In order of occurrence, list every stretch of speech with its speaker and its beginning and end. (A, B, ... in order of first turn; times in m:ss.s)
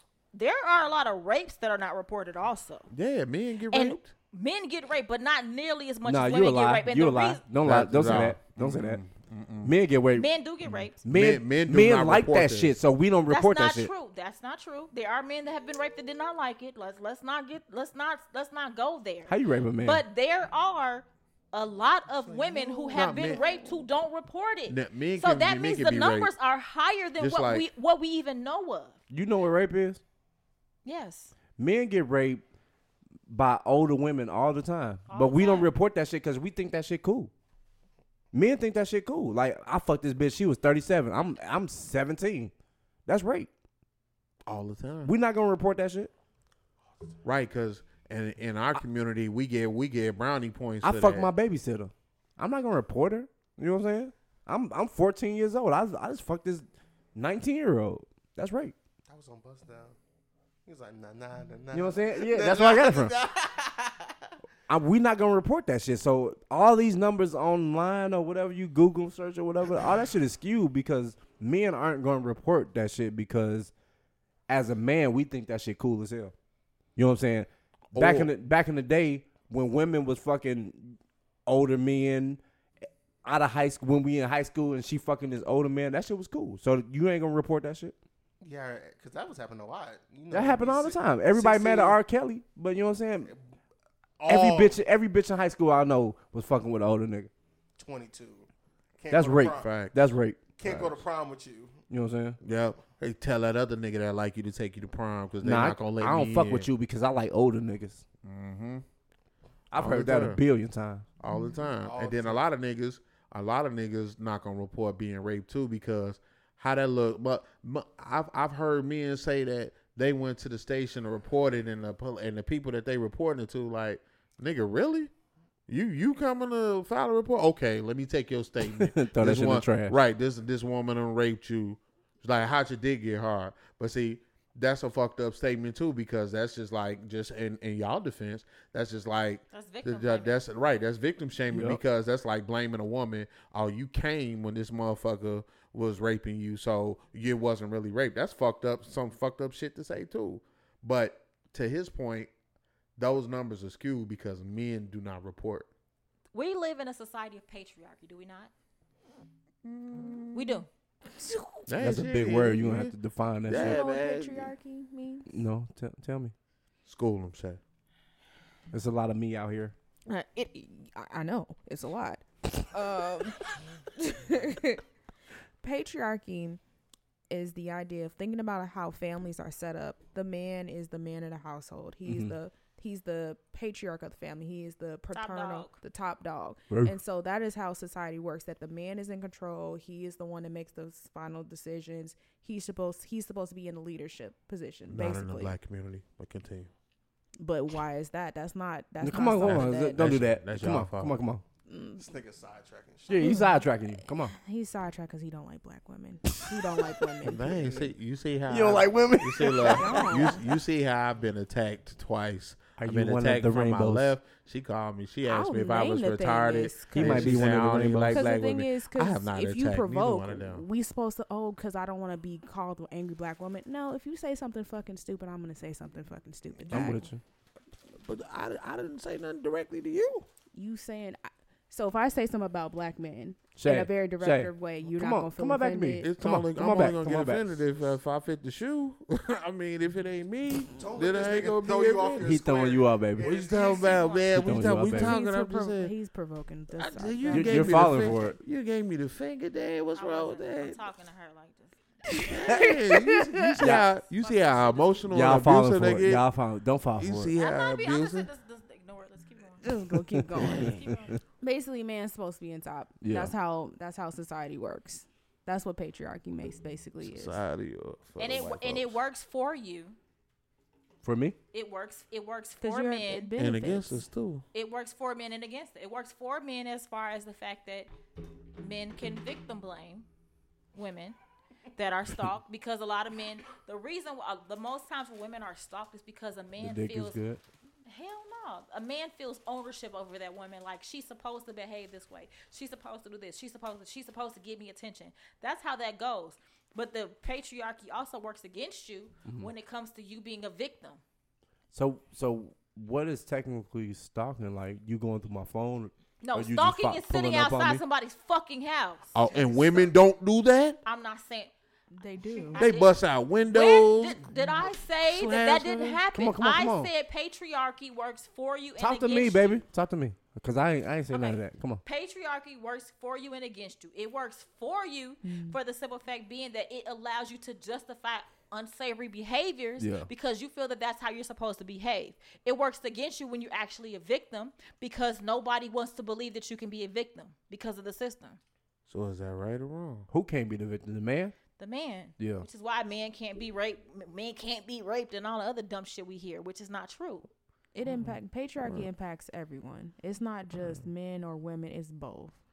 0:00.3-0:02.9 A
0:02.9-0:04.1 B
0:03.7-0:07.4 A
0:06.0-0:09.0 C
0:07.6-0:09.7 B
0:09.6-0:10.3 C
0:10.1-0:11.0 A
0:10.7-0:12.8 B
0:11.0-0:13.9 C
0:13.3-0:29.0 A
0:19.3-0:20.0 C
0:22.2-0:23.6 D
0:22.9-0:23.4 B
0:24.7-0:26.3 B
0:27.2-0:27.6 B
0:29.1-0:30.0 C
0:30.8-0:31.3 A
0:31.6-0:32.4 C
0:33.3-0:37.3 C
0:35.1-0:35.7 A
0:38.3-0:42.5 C
0:43.0-0:43.5 C
0:44.5-0:45.1 B
0:45.0-0:46.1 C
0:47.2-0:51.3 B
0:50.8-0:58.7 C
0:59.1-1:00.0 D
1:00.6-1:04.3 D
1:01.7-1:03.1 C
1:04.7-1:13.7 C
1:14.5-1:16.3 C
1:17.0-1:22.4 C
1:17.9-1:18.3 B
1:23.2-1:27.9 C
1:28.4-1:32.0 D
1:30.3-1:33.3 C
1:34.2-1:34.8 D
1:34.3-1:37.3 C
1:37.8-1:38.5 D
1:39.0-1:39.7 D
1:39.1-1:40.4 C
1:39.5-1:40.0 B
1:40.6-1:41.8 D
1:40.6-1:41.0 B
1:41.9-1:42.4 C
1:42.4-1:46.7 B
1:45.4-1:48.0 C
1:48.2-1:48.8 B
1:49.7-1:51.0 C
1:49.7-1:50.4 B
1:51.2-2:05.1 B
1:51.2-1:51.7 E
1:51.8-1:52.4 D
2:05.7-2:32.3 B
2:08.7-2:10.0 C
2:19.5-2:20.4 A
2:21.5-2:21.8 C
2:33.0-2:35.7 B
2:36.3-2:38.5 A
2:39.6-2:40.6 B
2:40.3-2:40.7 A
2:41.6-2:43.0 B
2:41.8-2:43.8 C
2:43.5-2:44.5 B
2:43.5-2:45.3 E
2:45.3-2:46.3 C
2:46.8-2:47.6 B
2:48.7-2:49.7 C
2:50.1-2:54.8 E
2:55.6-2:56.6 E
2:57.3-3:15.5 E
3:02.0-3:02.3 C
3:05.1-3:05.7 A
3:06.7-3:07.0 C
3:14.9-3:16.7 B
3:17.4-3:20.0 E
3:19.0-3:21.4 C
3:19.4-3:21.2 B
3:21.7-3:22.0 E
3:22.0-3:23.5 D
3:23.1-3:23.7 E
3:23.1-3:24.3 C
3:24.3-3:27.9 E
3:26.3-3:26.8 C
3:27.2-3:40.6 B
3:28.5-3:30.4 C
3:29.5-3:30.4 E
3:32.8-3:34.1 C
3:35.3-3:47.1 E
3:36.9-3:38.3 C
3:46.7-3:47.2 C
3:48.0-3:50.3 B
3:50.5-3:56.1 E
3:53.6-3:57.4 C
3:56.0-4:02.3 B
4:00.7-4:04.3 D
4:02.2-4:03.3 C
4:03.2-4:05.9 B
4:03.3-4:04.4 A
4:04.3-4:05.2 C
4:04.8-4:07.9 E
4:06.8-4:10.8 B
4:07.3-4:08.4 C
4:09.9-4:11.8 A
4:12.2-4:12.5 E
4:12.3-4:16.3 B
4:12.5-4:13.8 C
4:13.6-4:15.1 A
4:15.1-4:17.3 C
4:17.0-4:18.3 B
4:17.4-4:19.7 A
4:19.6-4:20.8 E
4:20.0-4:21.1 C
4:20.5-4:20.8 B
4:20.5-4:21.2 A
4:21.4-4:27.4 E
4:23.0-4:23.3 C
4:27.0-4:29.0 B
4:28.2-4:30.0 A
4:31.0-4:31.4 C
4:31.5-4:33.3 A
4:32.6-4:34.0 E
4:33.4-4:34.4 B
4:34.5-4:37.9 A
4:38.6-4:40.0 A
4:40.7-4:41.2 A
4:41.7-4:47.2 A
4:46.6-4:47.4 C
4:47.8-5:01.0 A
4:59.2-4:59.5 C
5:01.7-5:07.8 C
5:06.2-5:09.9 A
5:09.1-5:10.8 B
5:10.8-5:11.5 A
5:11.9-5:12.6 E
5:12.3-5:19.6 A
5:12.5-5:14.3 B
5:15.0-5:16.0 B
5:16.1-5:16.9 C
5:18.8-5:21.8 C
5:21.1-5:38.4 A
5:25.2-5:25.6 E
5:29.8-5:30.1 C
5:38.9-5:40.1 B
5:40.1-5:41.4 C
5:41.6-5:47.3 A
5:42.2-5:42.4 C
5:47.7-5:52.4 E